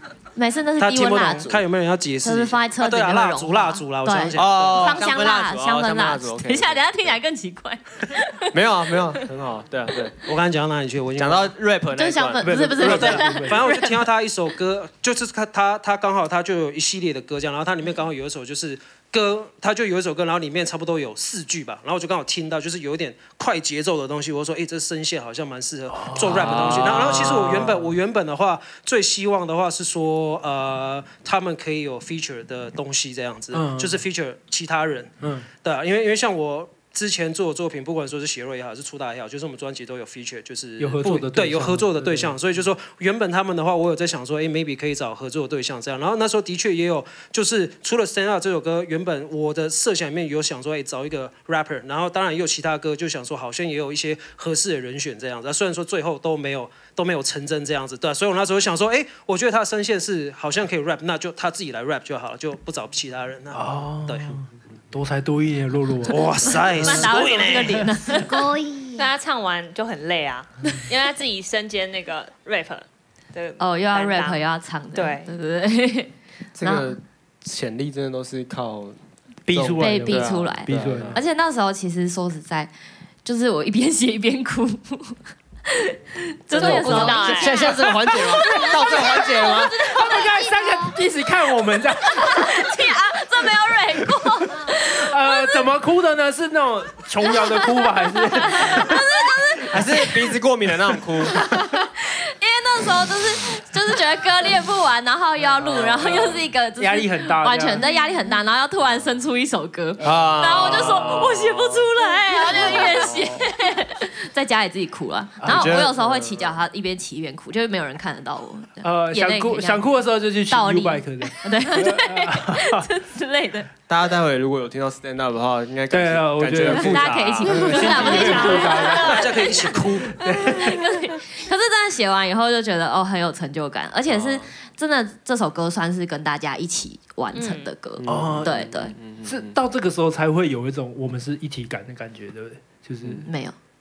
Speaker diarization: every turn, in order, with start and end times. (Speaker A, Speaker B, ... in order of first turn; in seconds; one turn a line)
Speaker A: 0.3-1.6
Speaker B: 0.8-5.0
Speaker A: 2.2-8.6
Speaker C: 4.3-7.1
Speaker C: 8.5-10.2
Speaker B: 10.2-11.5
Speaker C: 11.2-12.8
Speaker A: 11.9-14.1
Speaker D: 12.4-13.7
Speaker B: 12.8-64.4
Speaker D: 25.9-27.9
Speaker D: 33.5-34.0
Speaker D: 35.2-35.5
Speaker D: 40.8-42.4
Speaker D: 63.5-66.6
Speaker B: 66.0-67.9
Speaker A: 66.8-68.5
Speaker E: 68.2-69.1
Speaker F: 69.0-74.4
Speaker A: 73.6-77.0
Speaker F: 74.9-75.3
Speaker C: 76.5-81.2
Speaker D: 79.5-81.2
Speaker A: 79.8-82.7
Speaker A: 83.2-90.2
Speaker F: 86.5-87.7
Speaker E: 86.6-87.6
Speaker C: 87.2-89.8
Speaker E: 88.4-91.0
Speaker D: 89.8-92.6
Speaker A: 92.1-95.7
Speaker D: 94.8-99.1
Speaker A: 97.2-100.3
Speaker C: 99.7-101.4
Speaker A: 101.3-119.9
Speaker C: 105.6-106.5
Speaker D: 106.0-107.8
Speaker C: 110.0-111.9
Speaker C: 112.5-113.5
Speaker D: 115.5-115.9
Speaker C: 115.5-116.6
Speaker D: 118.8-122.9
Speaker A: 120.5-123.7
Speaker C: 123.9-128.2
Speaker D: 125.9-129.4
Speaker A: 126.6-138.9
Speaker F: 127.8-129.8
Speaker B: 128.9-130.2
Speaker D: 130.1-130.8
Speaker C: 134.1-134.5
Speaker F: 137.3-137.7
Speaker C: 138.0-139.5
Speaker D: 138.1-138.5
Speaker D: 139.3-143.3
Speaker A: 143.3-143.6